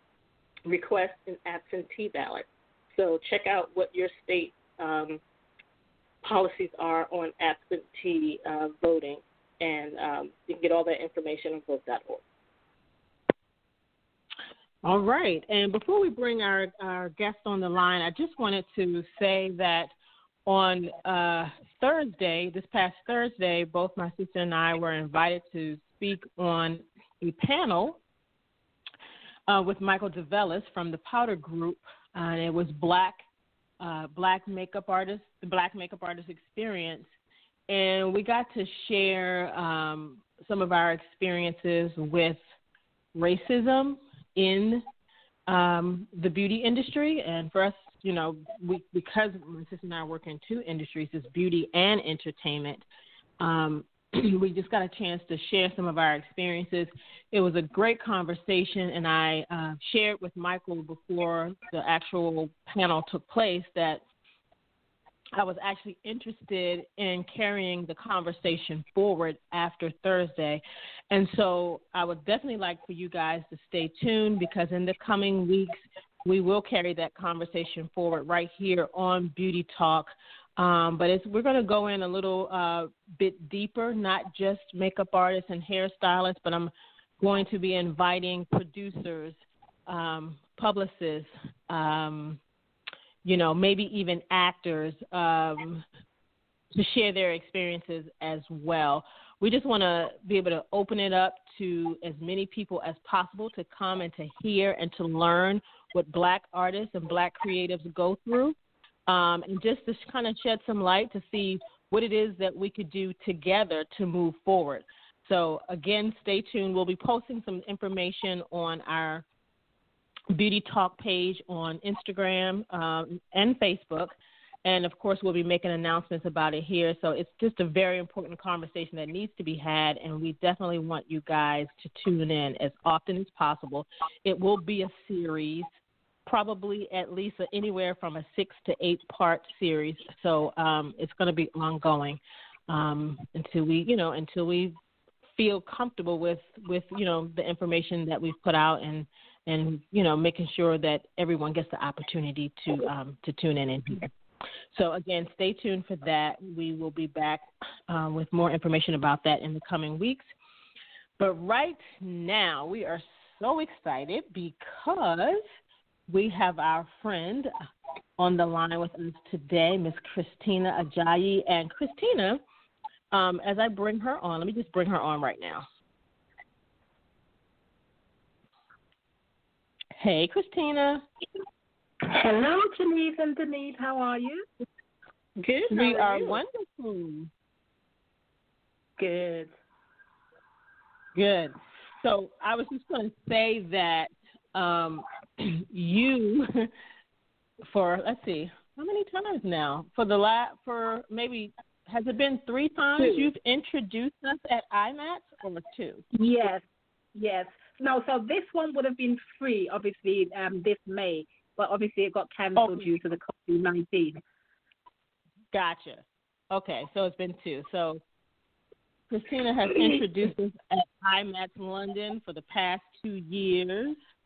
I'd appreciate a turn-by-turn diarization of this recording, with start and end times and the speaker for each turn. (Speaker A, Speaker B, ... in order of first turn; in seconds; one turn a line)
Speaker A: 0.7-5.2
Speaker A: 6.2-12.2
Speaker B: 14.8-19.9
Speaker B: 20.4-28.0
Speaker B: 29.5-33.2
Speaker B: 33.8-37.0
Speaker B: 37.7-42.4
Speaker B: 43.1-44.8
Speaker B: 45.5-52.8
Speaker B: 53.4-64.0
Speaker B: 65.4-92.4
Speaker B: 93.2-95.8
Speaker B: 96.7-108.5
Speaker B: 109.1-119.2
Speaker B: 120.3-135.7
Speaker B: 136.2-144.8
Speaker B: 145.3-154.1
Speaker B: 154.7-160.2
Speaker B: 161.2-165.4
Speaker B: 166.1-167.5
Speaker B: 168.2-172.4
Speaker B: 173.1-175.6
Speaker B: 179.9-181.0
Speaker C: 182.0-184.4
Speaker A: 185.4-186.4
Speaker B: 185.7-187.3
Speaker A: 189.0-189.5
Speaker B: 191.1-196.7
Speaker B: 197.7-206.0
Speaker A: 203.0-203.3
Speaker C: 206.1-206.6
Speaker C: 207.1-214.2
Speaker B: 212.6-212.9
Speaker B: 215.5-218.0
Speaker B: 219.1-224.0